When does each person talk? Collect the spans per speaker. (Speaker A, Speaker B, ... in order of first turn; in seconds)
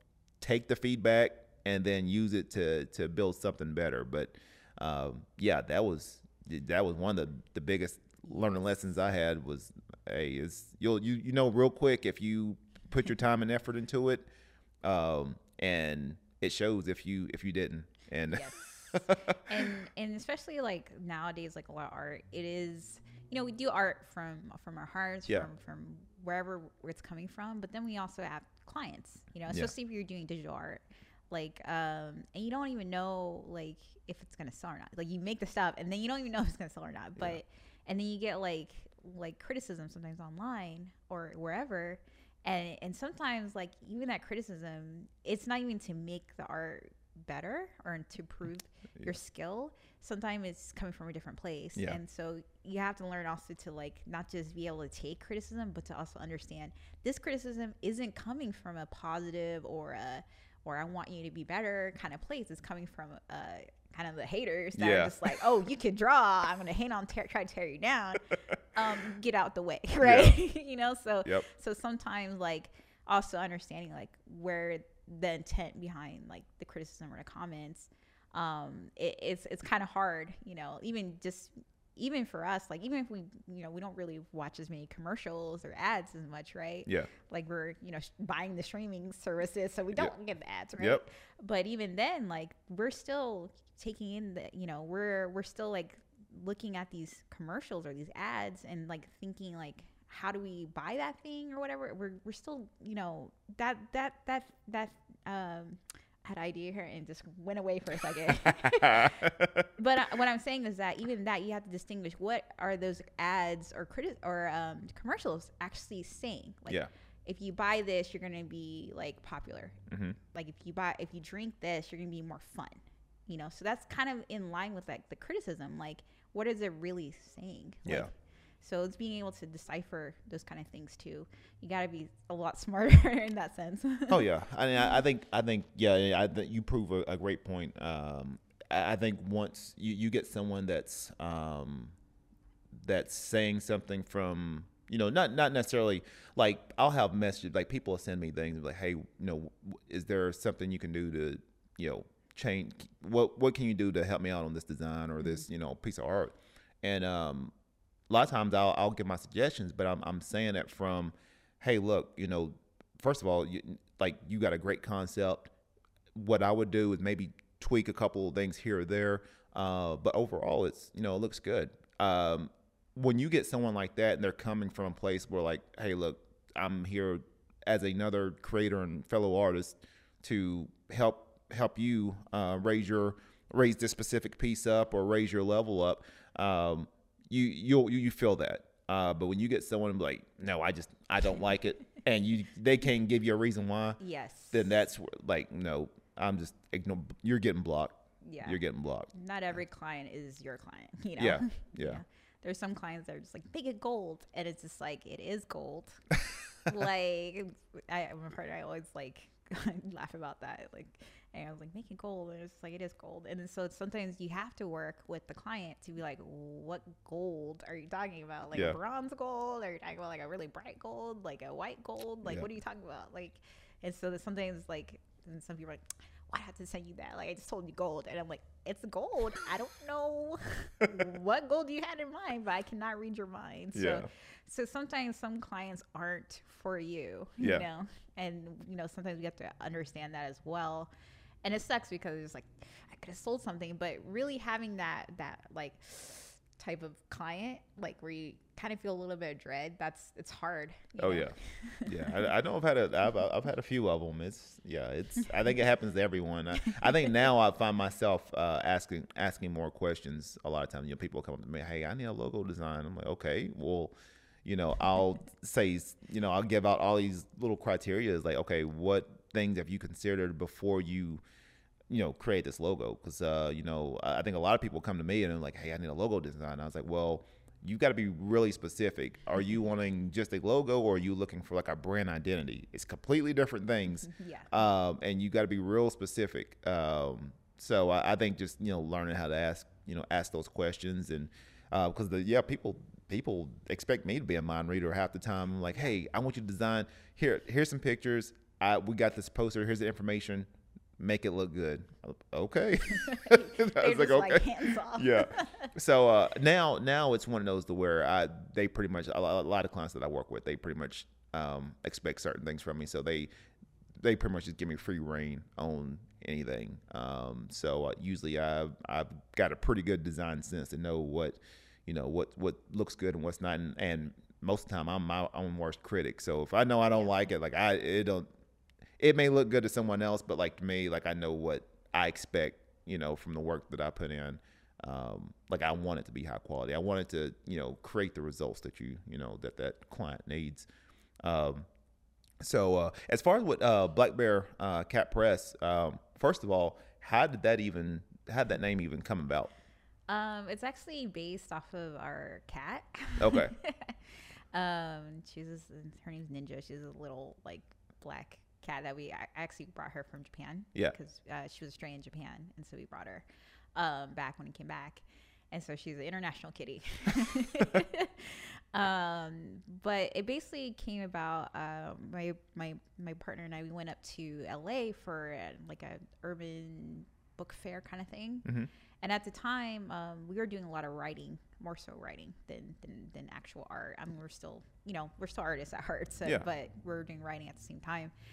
Speaker A: 0.4-14.3, 14.8-19.7, 64.8-65.4, 70.0-70.4, 90.8-91.0, 108.5-109.7, 119.9-120.2, 134.1-141.9, 142.8-157.5, 158.1-165.5, 166.1-194.0, 194.5-199.1, 201.2-202.0, 233.7-234.1, 237.4-237.7, 251.0-263.9, 264.4-271.2, 271.9-313.3, 314.0-328.3, 329.0-340.7, 341.2-341.7, 342.4-349.6, 353.2-353.6
Speaker B: 18.3-119.8, 120.3-134.3, 194.0-194.7, 198.2-198.6, 199.1-206.1, 206.6-240.9, 241.4-252.3, 284.0-284.5, 302.9-305.7, 350.1-354.0, 354.5-378.5, 379.0-388.1